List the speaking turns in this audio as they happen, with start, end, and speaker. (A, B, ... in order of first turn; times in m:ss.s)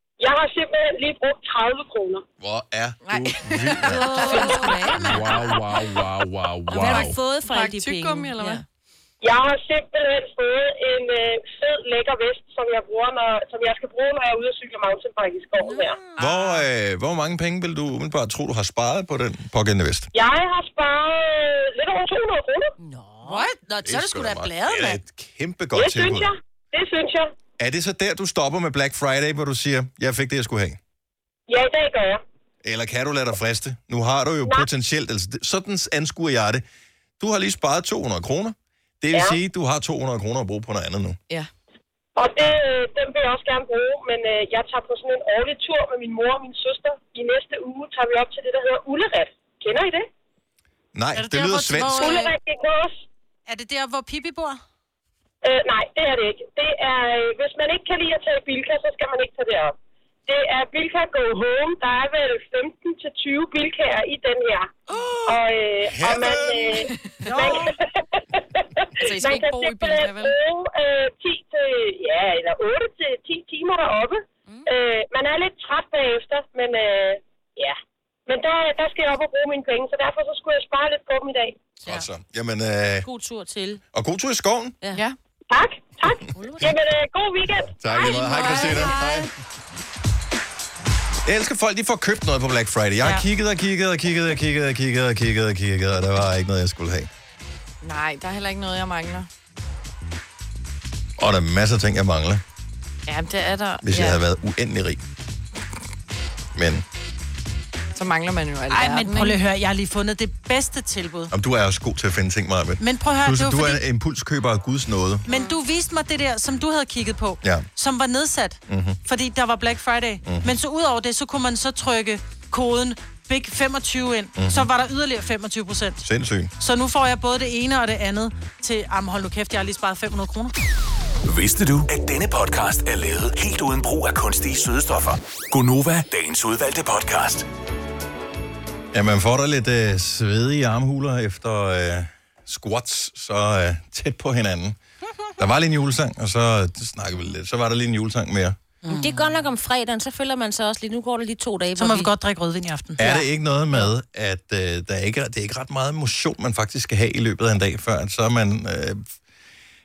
0:00.2-0:02.2 A
0:02.4-0:04.4 B
0:03.0-0:06.0 C
0:03.8-0:05.4 D
0:04.3-0:04.8 E
0:04.9-0:07.2 B
0:06.7-0:08.6 D
0:06.7-0:08.6 C
0:09.2-0:16.0 A
0:15.6-0:16.3 D
0:16.2-0:16.6 C
0:16.2-0:20.1 B
0:20.1-0:22.7 A
0:22.8-0:23.5 D
0:23.2-0:25.0 E
0:23.8-0:26.3 B
0:25.7-0:27.3 A
0:27.6-0:30.8 B
0:31.5-0:32.2 A
0:32.6-0:36.6 B
0:37.2-0:41.2 B
0:39.1-0:39.4 A
0:42.2-0:50.1 A
0:50.9-0:52.2 B
0:51.2-0:52.3 E
0:51.9-0:53.1 A
0:53.5-0:54.6 E
0:55.4-0:59.7 A
1:00.3-1:04.7 A
1:04.9-1:05.4 C
1:05.2-1:17.8 A
1:05.8-1:06.9 B
1:06.8-1:07.6 C
1:09.0-1:10.3 C
1:18.3-1:21.7 A
1:21.8-1:23.1 B
1:23.0-1:23.8 D
1:23.9-1:24.8 B
1:25.5-1:28.7 A
1:26.3-1:26.7 D
1:27.8-1:29.3 B
1:27.9-1:29.0 C
1:28.0-1:29.3 D
1:31.2-1:37.1 B
1:37.8-1:39.3 C
1:41.2-1:42.4 B
1:43.1-1:44.2 C
1:43.8-1:45.0 B
1:46.5-1:46.8 B
1:47.9-1:49.4 C
1:48.7-1:51.3 E
1:51.3-1:55.2 B
1:52.8-1:53.8 E
1:55.3-2:06.0 E
1:55.3-1:55.6 D
1:58.7-1:59.0 B
2:00.2-2:00.5 B
2:04.4-2:04.7 B
2:06.0-2:06.5 B
2:06.6-2:10.5 E
2:11.2-2:17.4 F
2:18.9-2:24.8 B
2:25.4-2:28.6 B
2:28.8-2:29.2 E
2:28.8-2:32.1 D
2:31.7-2:33.2 E
2:33.0-2:39.1 B